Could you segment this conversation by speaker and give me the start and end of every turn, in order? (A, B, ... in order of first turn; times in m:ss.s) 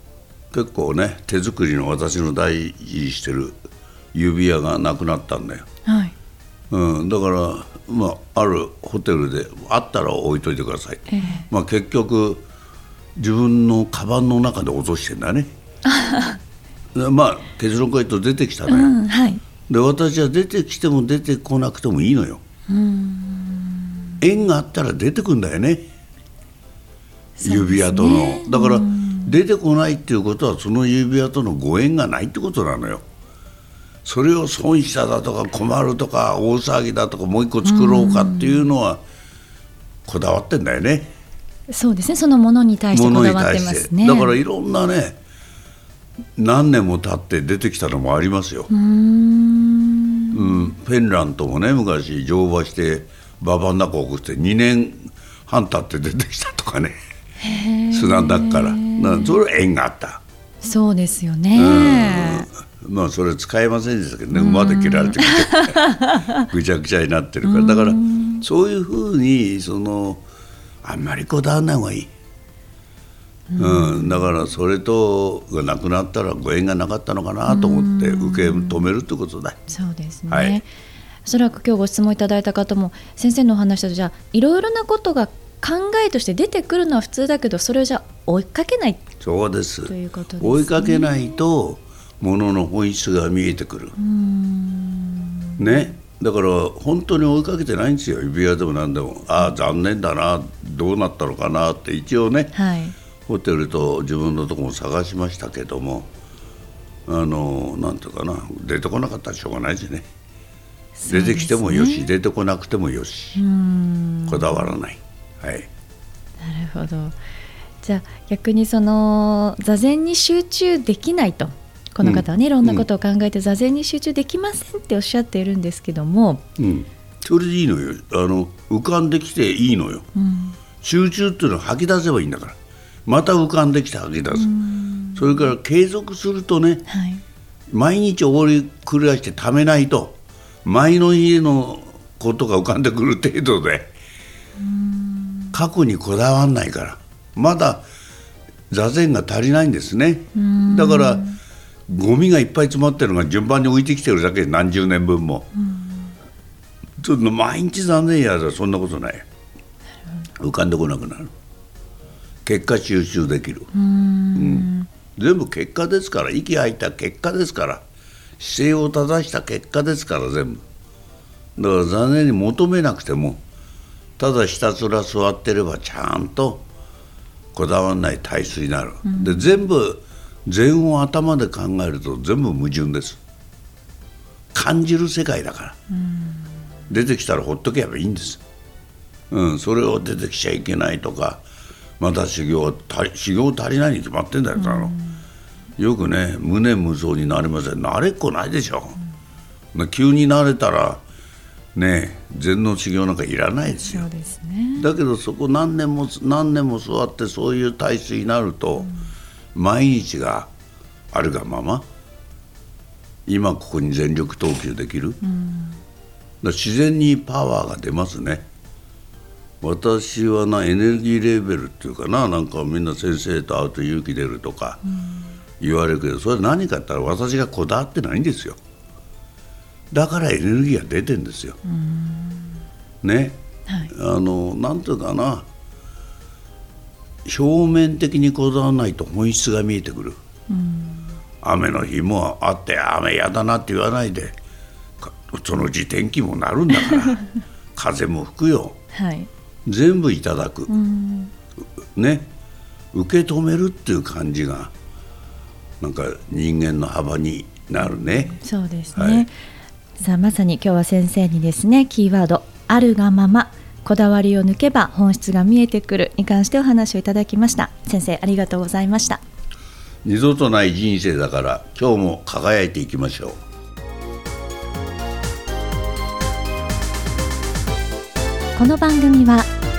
0:00.5-0:03.6 A
0:04.1-0:05.6 A
0:05.8-0:06.1 B
0:06.7-0:12.4 A
0:11.1-0:11.5 B
0:13.2-0:15.5 A
0:15.9-0:16.4 B
0:17.0-0:18.9 A
0:18.7-0:19.4 B
0:19.7-0:22.4 A
0:22.7-0:24.1 B
0:24.2-0:25.9 A
0:27.4-0:29.4 B
0:27.4-0:33.0 A
0:34.0-0:39.0 A
0:37.6-0:38.7 B
0:40.1-0:41.1 A
0:41.7-0:44.4 B
0:42.9-0:45.2 A
0:46.4-0:48.7 A
0:48.7-0:50.7 B
0:50.3-0:57.0 A
0:57.4-0:59.4 B
0:57.9-1:00.2 A
1:00.6-1:02.5 B
1:01.6-1:10.2 A
1:04.3-1:06.3 B
1:07.4-1:08.5 B
1:10.8-1:12.1 A
1:13.5-1:14.3 B
1:13.6-1:19.6 A
1:17.5-1:18.9 B
1:19.7-1:20.7 B
1:20.3-1:20.6 A
1:21.3-1:29.0 B
1:29.2-1:34.0 A
1:29.9-1:31.2 B
1:34.0-1:35.9 B
1:35.6-1:42.5 A
1:42.5-1:43.0 B
1:43.3-1:46.1 A
1:47.1-1:50.0 A
1:51.0-1:52.1 B
1:51.1-1:53.4 A
1:53.4-1:54.7 B
1:54.3-1:55.7 A
1:56.4-1:57.2 B
1:57.8-2:06.4 B
2:02.0-2:02.9 A
2:06.6-2:10.1 A
2:10.2-2:10.6 B
2:10.8-2:14.5 A
2:14.3-2:15.4 B
2:15.2-2:16.9 A
2:16.9-2:17.2 B
2:17.7-2:23.9 A
2:24.6-2:25.6 B
2:25.5-2:27.8 A
2:28.7-2:31.2 A
2:30.4-2:31.4 B
2:31.9-2:35.5 A
2:35.6-2:36.1 B
2:37.0-2:39.2 A
2:40.4-2:41.3 A
2:42.4-2:43.7 A
2:43.7-2:44.9 B
2:44.4-2:47.8 A
2:48.4-2:50.6 A
2:51.6-2:53.4 A
2:54.2-2:56.6 A
2:57.5-3:03.2 A
2:59.0-2:59.6 B
3:04.5-3:05.8 A
3:06.0-3:06.4 B
3:06.9-3:08.4 A
3:09.3-3:11.4 A
3:12.0-3:14.9 A
3:14.6-3:15.2 B
3:15.8-3:19.0 A
3:19.7-3:21.0 A
3:21.8-3:24.1 A
3:23.9-3:24.9 B
3:24.8-3:28.9 A
3:29.6-3:30.5 A
3:31.1-3:31.8 A
3:33.3-3:35.2 A
3:35.2-3:35.8 B
3:36.4-3:38.4 A
3:39.6-3:44.8 A
3:44.9-3:45.3 B
3:45.6-3:48.6 A
3:49.9-3:51.6 A
3:51.6-3:52.6 B
3:53.0-3:55.4 A
3:57.3-4:00.2 A
4:00.5-4:01.1 B
4:01.4-4:04.4 A
4:05.0-4:07.2 A
4:07.0-4:07.2 B
4:07.8-4:08.8 A
4:08.9-4:09.3 B
4:09.7-4:10.7 A
4:10.7-4:11.3 B
4:12.0-4:12.3 A
4:12.9-4:14.7 A
4:15.8-4:18.4 A
4:18.0-4:19.3 B
4:19.0-4:19.3 A
4:20.0-4:29.2 B
4:30.0-4:33.4 A
4:38.6-4:39.5 B